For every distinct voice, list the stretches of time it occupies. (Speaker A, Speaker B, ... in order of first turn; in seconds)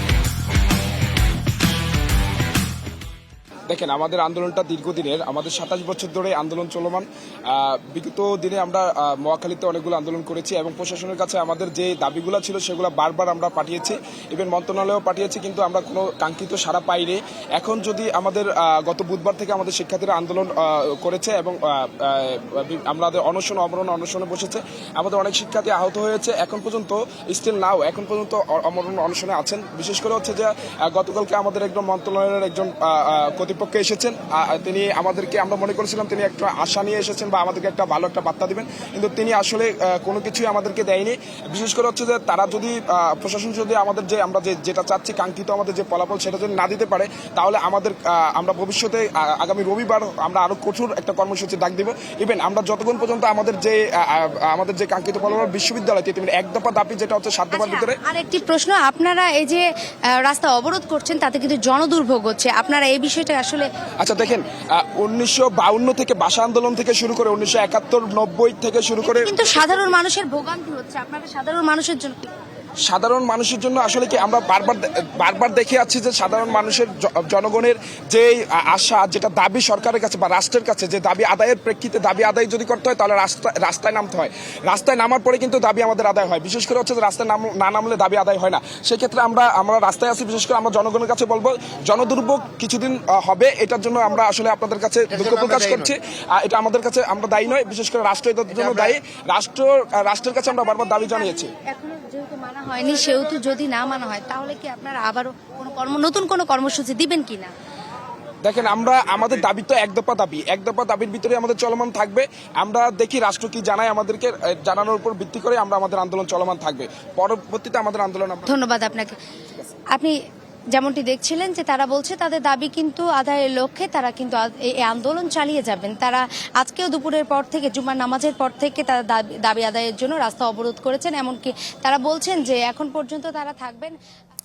Speaker A: 3.7-58.0, 64.0-69.3, 72.9-101.5, 108.4-118.6
Speaker B: 57.5-59.7, 60.2-63.7, 69.0-72.3, 100.7-107.5, 118.5-119.2, 120.7-134.0